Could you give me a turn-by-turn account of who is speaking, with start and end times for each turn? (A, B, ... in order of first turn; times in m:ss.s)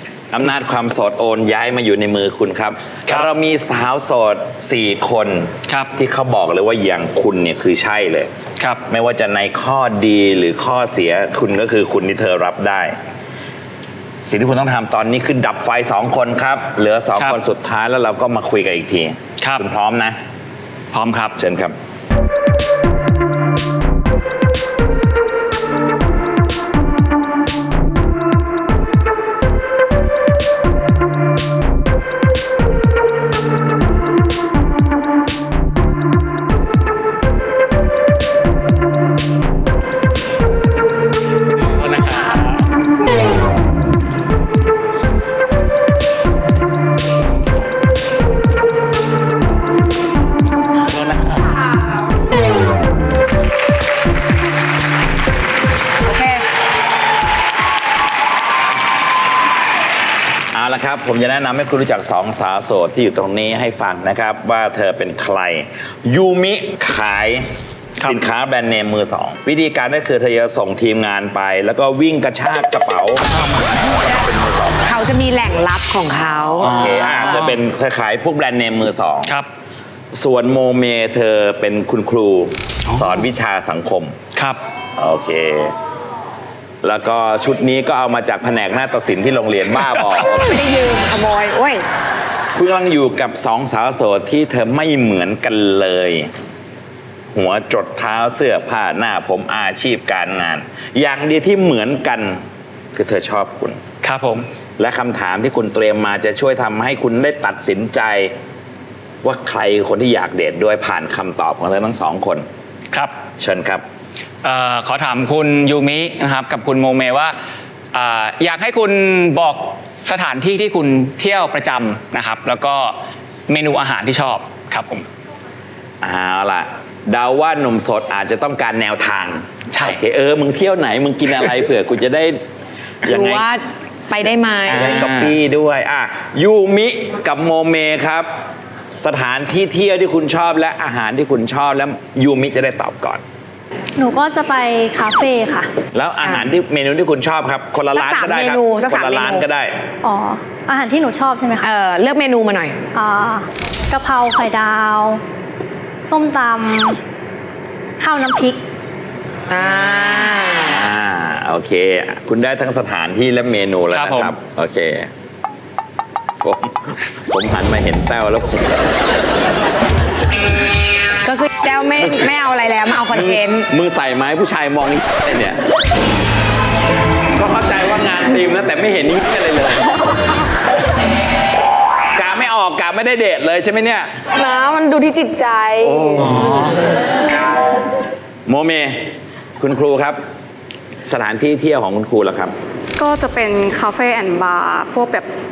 0:00.3-0:08.3 A
0:08.9-0:12.9 A
0:14.2-0:20.2 A
0:20.9-0:21.4 B
0:21.4-0:21.7 A
0:41.6-0:42.6 B
0:50.8-0:51.4 B
0:56.0-0:56.4 C
1:00.5-1:13.3 A
1:13.8-1:14.9 A
1:14.8-1:16.8 C
1:16.6-1:17.6 B
1:16.7-1:19.3 A
1:20.1-1:24.2 A
1:22.9-1:23.2 B
1:25.0-1:25.7 A
1:26.8-1:30.6 A
1:29.8-1:30.2 B
1:30.4-1:31.9 C
1:32.5-1:36.3 A
1:37.3-1:42.4 A
1:42.9-1:43.8 A
1:44.0-1:44.4 B
1:44.8-1:48.3 A
1:49.2-1:52.4 A
1:53.4-1:53.8 A
1:54.4-1:57.3 B
1:57.9-2:03.0 B
2:03.5-2:05.0 B
2:06.0-2:12.4 A
2:09.7-2:10.0 B
2:13.0-2:15.0 C
2:13.1-2:13.5 A
2:14.7-2:15.4 B
2:14.7-2:18.3 A
2:19.0-2:23.2 A
2:24.0-2:25.7 D
2:25.9-2:29.7 A
2:26.2-2:26.5 C
2:27.9-2:29.5 C
2:30.0-2:31.7 D
2:31.6-2:32.8 C
2:32.9-2:35.2 D
2:36.0-2:37.0 D
2:38.0-2:38.6 D
2:39.5-2:40.8 C
2:39.7-2:40.0 A
2:40.6-2:45.1 A
2:43.9-2:44.3 B
2:46.4-2:48.8 A
2:51.2-2:53.7 C
2:52.0-2:52.5 A
2:53.0-2:55.6 A
2:57.4-3:00.0 A
3:02.2-3:04.1 A
3:04.3-3:06.5 C
3:05.8-3:06.4 A
3:06.2-3:06.7 B
3:08.4-3:09.0 A
3:09.6-3:10.2 A
3:11.0-3:12.5 A
3:13.0-3:15.3 E